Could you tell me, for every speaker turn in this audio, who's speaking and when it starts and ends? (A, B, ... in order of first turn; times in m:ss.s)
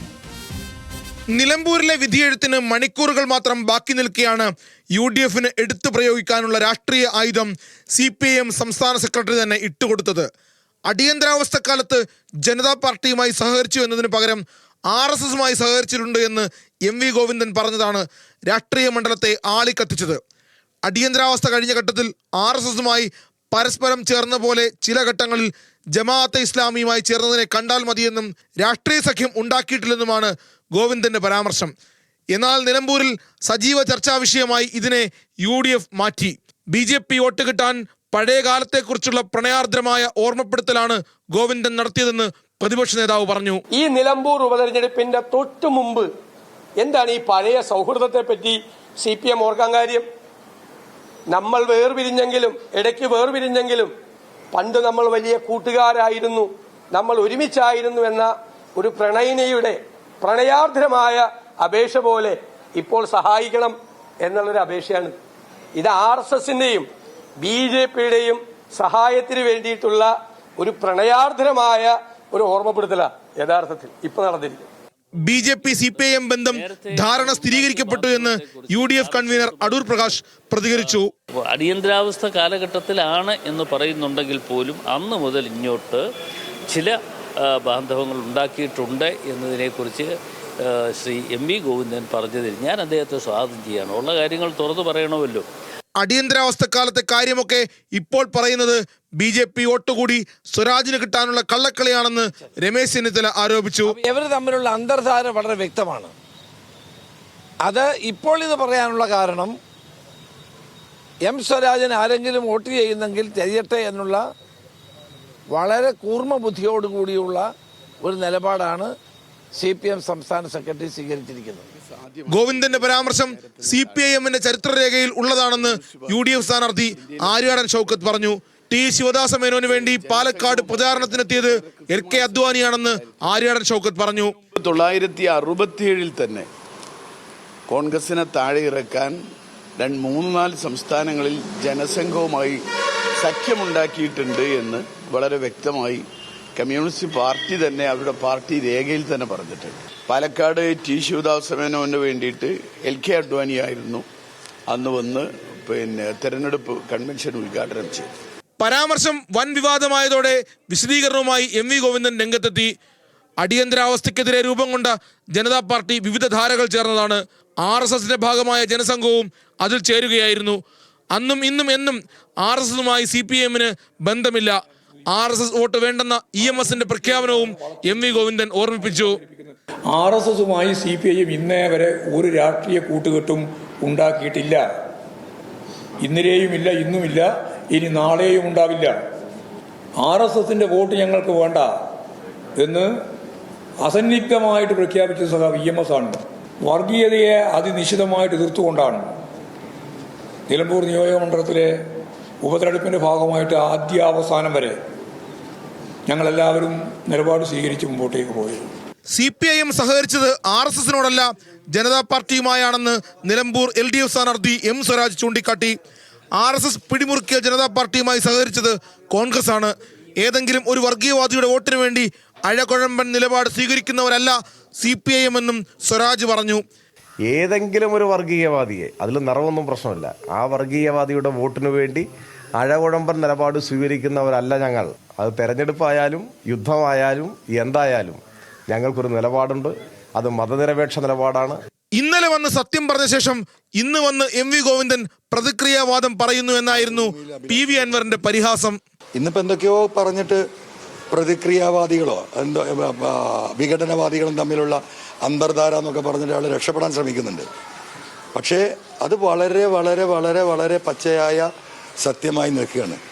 0:01.3-0:10.3 A
0:10.9-0:20.2 A
0:20.8-0:31.7 A
0:32.3-0:43.6 A
0:43.7-0:46.1 B
0:46.8-0:50.0 B
0:51.3-0:53.9 B
0:54.5-1:05.1 B
1:05.8-1:06.9 B
1:07.4-1:14.6 B
1:15.2-1:21.1 A
1:16.5-1:20.2 C
1:20.7-1:26.0 C
1:26.7-1:35.4 C
1:36.0-1:43.9 A
1:43.8-1:46.1 D
1:47.6-1:49.6 D
1:51.2-1:54.2 D
1:55.5-1:57.5 D
1:58.0-1:58.9 D
1:59.5-2:01.6 D
2:01.7-2:04.5 E
2:02.3-2:14.3 A
2:05.4-2:06.4 E
2:06.9-2:08.2 E
2:09.5-2:13.1 E
2:14.4-2:16.5 E
2:17.7-2:19.1 E
2:19.8-2:22.6 E
2:23.2-2:26.0 E
2:26.6-2:34.0 E
2:34.7-2:38.1 E
2:38.6-2:42.7 A
2:43.4-2:50.6 A
2:51.1-2:54.5 A
2:55.1-2:59.2 A
2:56.7-3:04.6 F
3:06.0-3:09.0 F
3:10.0-3:11.7 F
3:12.6-3:12.9 F
3:13.8-3:19.0 F
3:20.5-3:21.7 F
3:22.4-3:24.8 F
3:26.1-3:28.7 F
3:29.1-3:35.8 A
3:36.4-3:46.6 A
3:47.3-3:52.0 G
3:52.6-4:01.6 G
4:01.9-4:08.8 A
4:06.7-4:08.0 H
4:09.2-4:10.4 H
4:11.1-4:17.5 H
4:18.3-4:21.5 H
4:22.0-4:23.0 H